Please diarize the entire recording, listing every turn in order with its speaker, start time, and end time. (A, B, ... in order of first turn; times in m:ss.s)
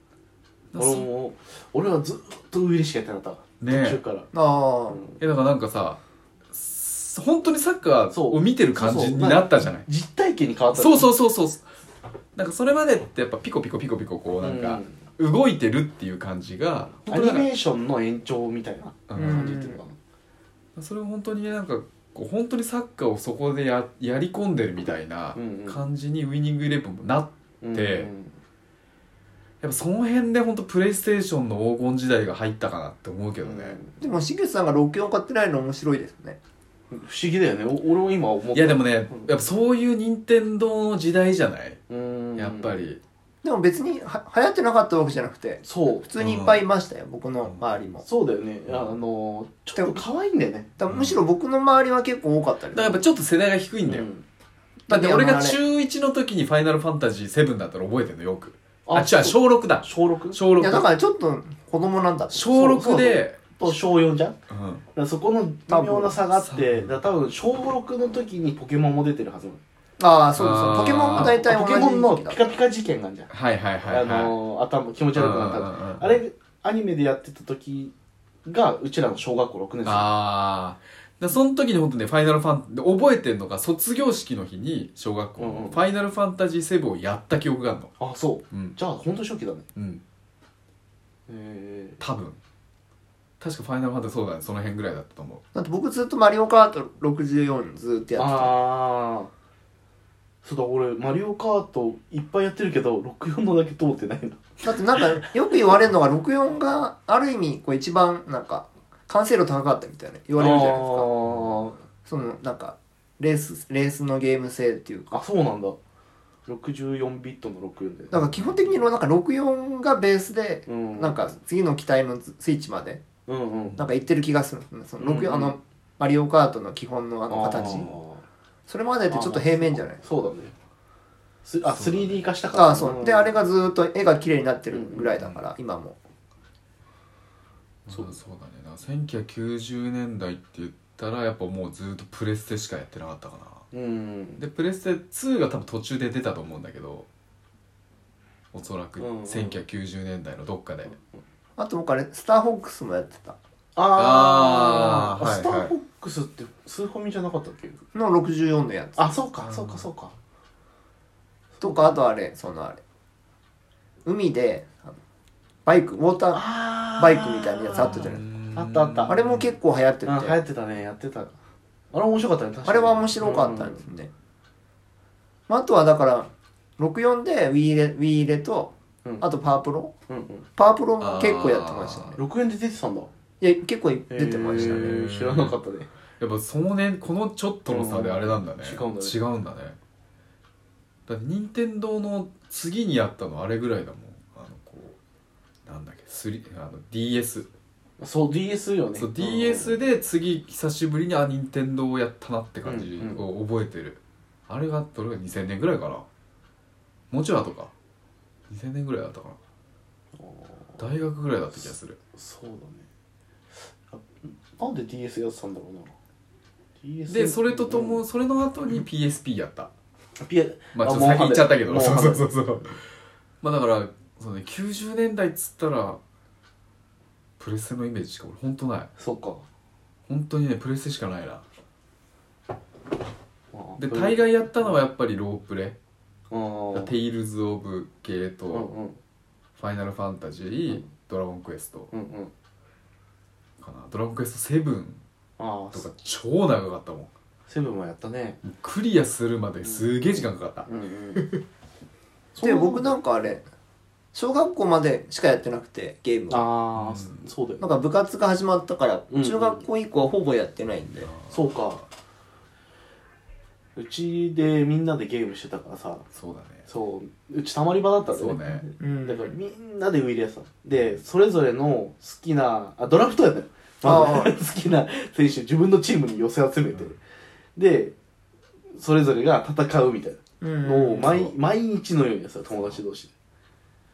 0:00.7-0:01.1 A
0:00.8-0:04.3 B
0:03.6-0:04.0 A
0:04.3-0:05.0 C
0:04.9-0:05.2 B
0:05.2-0:06.0 A
0:06.5-0:09.8 A
0:08.1-0:11.1 B
0:10.7-0:11.6 A
0:12.3-0:17.5 A
0:14.4-0:15.0 B
0:17.1-0:19.9 B
0:19.1-0:19.6 A
0:19.2-0:19.8 C
0:20.8-0:28.1 A
0:25.4-0:25.8 B
0:27.6-0:28.3 B
0:29.6-0:33.8 A
0:33.4-0:34.0 B
0:34.0-0:36.4 C
0:36.9-0:39.3 B
0:38.5-0:41.8 A
0:41.9-0:42.8 B
0:42.4-0:43.0 A
0:43.4-0:48.0 C
0:45.6-0:46.1 B
0:46.2-0:46.6 A
0:48.0-0:50.7 B
0:48.7-0:49.0 A
0:49.8-0:50.0 C
0:50.8-0:53.0 C
0:50.9-0:51.2 A
0:52.7-0:54.1 A
0:53.9-0:54.2 B
0:54.9-0:55.6 C
0:54.9-1:00.9 A
0:58.8-1:00.4 B
1:00.6-1:02.5 C
1:02.3-1:03.6 A
1:02.5-1:04.4 B
1:04.5-1:04.8 A
1:04.9-1:09.6 B
1:05.7-1:06.2 C
1:06.3-1:06.9 A
1:10.0-1:12.4 C
1:10.4-1:11.4 A
1:10.4-1:13.3 B
1:13.3-1:14.4 A
1:13.9-1:17.9 B
1:15.1-1:16.2 A
1:18.4-1:20.1 B
1:19.8-1:27.9 A
1:25.4-1:25.8 B
1:28.0-1:29.6 B
1:28.5-1:28.8 A
1:29.8-1:30.0 A
1:31.3-1:32.0 B
1:32.0-1:32.4 A
1:33.4-1:35.4 A
1:35.5-1:38.6 C
1:38.2-1:39.3 B
1:40.4-1:45.2 B
1:44.6-1:51.1 C
1:50.4-1:51.8 B
1:52.0-1:55.2 C
1:55.1-1:55.8 B
1:56.5-1:58.2 B
1:58.1-2:03.0 C
2:00.7-2:01.4 B
2:03.3-2:03.8 B
2:03.8-2:07.9 C
2:05.0-2:05.6 B
2:07.3-2:08.2 B
2:08.7-2:10.0 C
2:09.1-2:10.5 B
2:11.4-2:13.3 B
2:11.7-2:12.2 A
2:12.5-2:16.0 C
2:14.7-2:15.1 B
2:17.9-2:23.6 A
2:23.7-2:24.4 B
2:24.4-2:27.1 A
2:28.5-2:31.0 A
2:29.0-2:29.6 B
2:31.6-2:33.4 C
2:33.8-2:37.8 B
2:33.9-2:35.7 A
2:35.2-2:35.5 C
2:37.9-2:39.2 C
2:39.0-2:40.1 B
2:39.4-2:39.9 A
2:41.6-2:41.9 B
2:41.6-2:42.8 C
2:44.0-2:44.9 C
2:45.6-2:46.4 C
2:46.3-2:49.2 B
2:47.0-2:48.2 C
2:47.8-2:49.5 A
2:49.1-2:50.4 C
2:50.0-2:51.3 B
2:51.9-2:53.8 B
2:52.6-2:54.1 C
2:55.5-2:59.9 C
3:00.1-3:00.5 B
3:00.6-3:02.2 C
3:01.0-3:02.2 A
3:02.2-3:03.1 B
3:03.4-3:05.0 C
3:04.1-3:05.9 B
3:04.6-3:05.6 A
3:06.2-3:09.8 A
3:07.7-3:09.2 B
3:11.1-3:15.0 A
3:15.6-3:17.5 A
3:18.0-3:19.8 B
3:19.0-3:26.0 A
3:22.6-3:23.2 B
3:27.1-3:27.7 A
3:28.5-3:29.4 A
3:30.1-3:30.8 B
3:30.8-3:32.0 A
3:31.6-3:32.8 B
3:33.9-3:35.9 B
3:36.8-3:38.0 B
3:37.1-3:39.7 A
3:40.2-3:42.3 B
3:40.7-3:42.8 A
3:43.4-3:46.0 A
3:47.4-3:48.9 A
3:49.0-3:49.4 B
3:50.1-3:51.4 A
3:53.5-3:54.8 B
3:53.8-3:55.8 A
3:56.3-3:56.9 B
3:56.7-3:58.7 A
3:58.5-3:59.0 B
3:59.6-4:01.9 A
4:01.9-4:02.3 B
4:03.6-4:05.0 A
4:05.4-4:05.8 B
4:05.7-4:07.1 A
4:07.5-4:08.4 B
4:08.4-4:11.4 A
4:09.6-4:11.3 B
4:12.3-4:13.0 B
4:12.4-4:13.4 C
4:14.1-4:16.5 C
4:16.3-4:17.6 B
4:16.7-4:17.2 A
4:17.6-4:21.1 C
4:19.1-4:19.6 B
4:21.1-4:21.4 A
4:21.3-4:21.8 B
4:23.8-4:26.0 B
4:26.1-4:26.6 A
4:26.7-4:37.0 B
4:28.1-4:28.6 A
4:28.8-4:29.4 C
4:33.8-4:34.3 C
4:37.6-4:37.9 B
4:38.7-4:43.1 B
4:40.4-4:41.2 C
4:41.0-4:41.3 A